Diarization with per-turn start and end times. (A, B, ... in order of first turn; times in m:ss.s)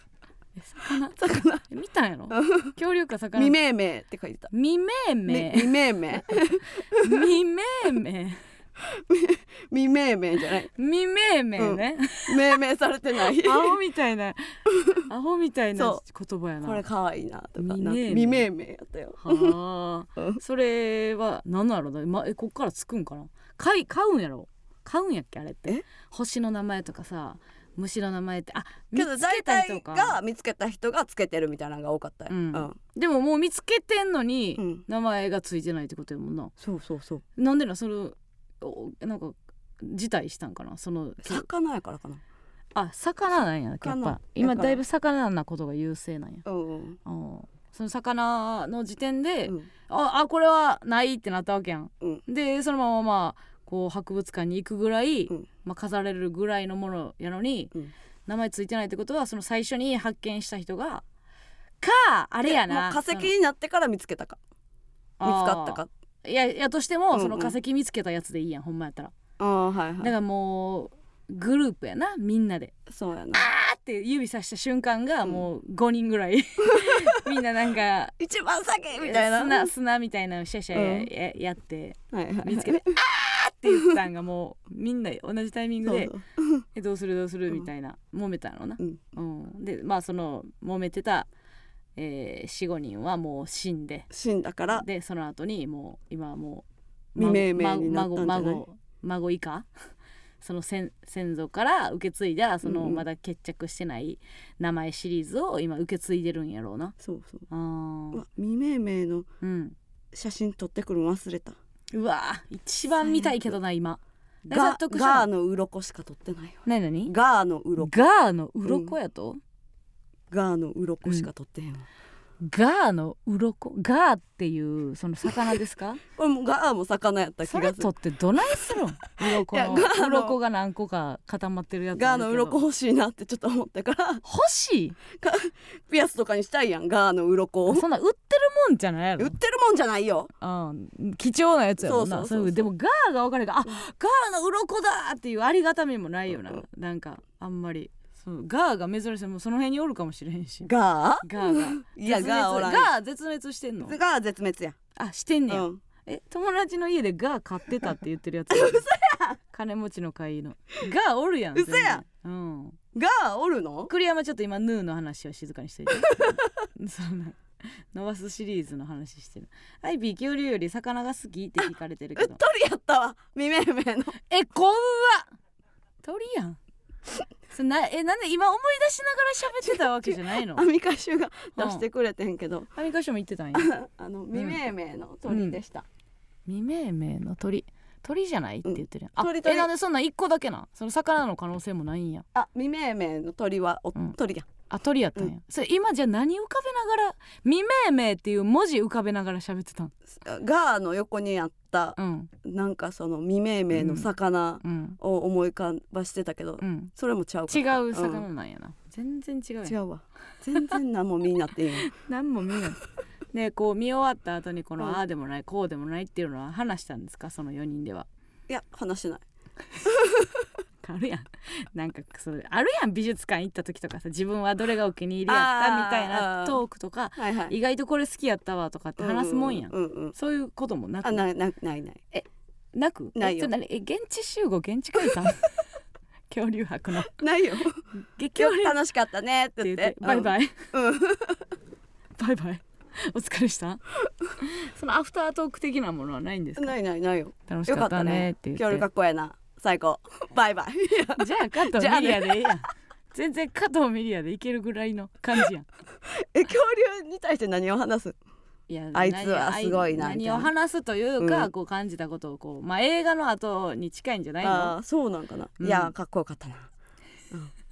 0:00.6-0:03.6 A
0:01.1-0:01.6 B
0:02.3-0:02.7 B
0:03.3-0:04.5 B
0:04.5-0:05.7 A
0:05.2-0:07.2 B
0:07.0-0:08.4 A
0:08.8-0:10.7 B
0:10.8-0:12.4 A
0:11.6-0:13.8 B
0:13.2-0:16.8 A
0:14.7-0:15.0 B
0:15.8-0:16.0 B
0:16.6-0:19.6 B
0:17.6-0:18.5 A
0:19.2-0:30.2 A
0:28.9-0:32.8 B
0:32.3-0:36.5 A
0:34.6-0:34.8 B
0:36.6-0:37.2 B
0:37.4-0:41.4 A
0:41.2-0:42.2 B
0:42.7-0:46.4 A
0:43.8-0:44.8 B
0:46.4-0:47.0 B
0:47.0-0:57.7 A
0:58.2-1:01.0 A
1:01.8-1:03.3 A
1:02.4-1:04.4 B
1:05.2-1:09.1 A
1:05.2-1:05.9 B
1:07.1-1:07.6 B
1:09.4-1:10.1 B
1:10.0-1:12.7 A
1:12.9-1:13.4 B
1:13.3-1:18.1 A
1:16.6-1:17.2 B
1:18.2-1:19.7 B
1:19.0-1:26.1 A
1:20.7-1:21.1 B
1:22.1-1:22.9 B
1:25.8-1:26.6 B
1:26.7-1:31.3 A
1:32.0-1:34.1 A
1:34.1-1:34.8 B
1:34.7-1:39.7 A
1:37.2-1:38.6 B
1:40.4-1:46.9 A
1:42.6-1:43.0 B
1:47.0-1:47.5 B
1:47.5-1:48.2 A
1:48.1-1:49.3 B
1:49.4-1:49.8 A
1:50.1-1:51.6 B
1:51.9-1:55.3 A
1:54.5-1:58.0 B
1:56.6-1:57.1 A
1:57.8-1:59.4 A
1:58.6-1:58.9 B
2:00.3-2:01.8 B
2:02.4-2:06.0 A
2:06.1-2:07.9 B
2:07.4-2:12.6 A
2:08.7-2:10.4 B
2:11.9-2:14.2 B
2:14.2-2:15.0 A
2:15.1-2:17.8 B
2:17.7-2:19.4 A
2:19.2-2:20.3 B
2:20.4-2:30.7 A
2:21.8-2:22.7 B
2:30.6-2:32.9 B
2:31.2-2:34.0 A
2:33.8-2:34.8 B
2:35.0-2:38.8 A
2:35.5-2:35.8 B
2:38.5-2:39.4 B
2:39.5-2:42.8 A
2:41.5-2:42.0 B
2:42.9-2:43.9 B
2:43.9-2:52.4 A
2:46.1-2:46.5 B
2:52.2-2:54.2 B
2:54.3-2:55.3 A
2:56.0-2:56.6 A
2:57.5-3:00.6 A
3:00.0-3:02.7 B
3:01.6-3:01.8 A
3:02.7-3:03.7 A
3:03.5-3:05.8 B
3:04.3-3:04.6 A
3:05.3-3:05.6 A
3:06.4-3:12.2 A
3:08.6-3:09.7 B
3:12.3-3:14.5 B
3:14.7-3:19.9 A
3:20.1-3:28.2 B
3:22.0-3:22.3 A
3:23.7-3:24.1 A
3:24.6-3:25.0 A
3:26.6-3:26.9 A
3:27.5-3:29.8 A
3:29.6-3:31.9 B
3:31.8-3:32.8 A
3:33.3-3:38.1 A
3:38.5-3:39.2 B
3:39.8-3:40.4 B
3:40.8-3:51.2 A
3:45.3-3:46.6 B
3:47.2-3:47.5 B
3:49.0-3:50.1 B
3:51.0-3:52.0 B
3:52.1-3:55.4 A
3:53.2-3:53.5 B
3:56.3-3:57.1 A
3:57.1-4:01.4 B
3:58.0-3:58.8 A
3:59.6-4:00.6 A
4:02.2-4:03.8 A
4:04.4-4:06.7 A
4:06.6-4:12.6 B
4:07.5-4:08.8 A
4:11.2-4:15.6 A
4:16.0-4:18.2 B
4:18.7-4:24.7 A
4:18.9-4:20.5 B
4:21.2-4:21.5 B
4:24.4-4:26.7 B
4:25.6-4:25.9 A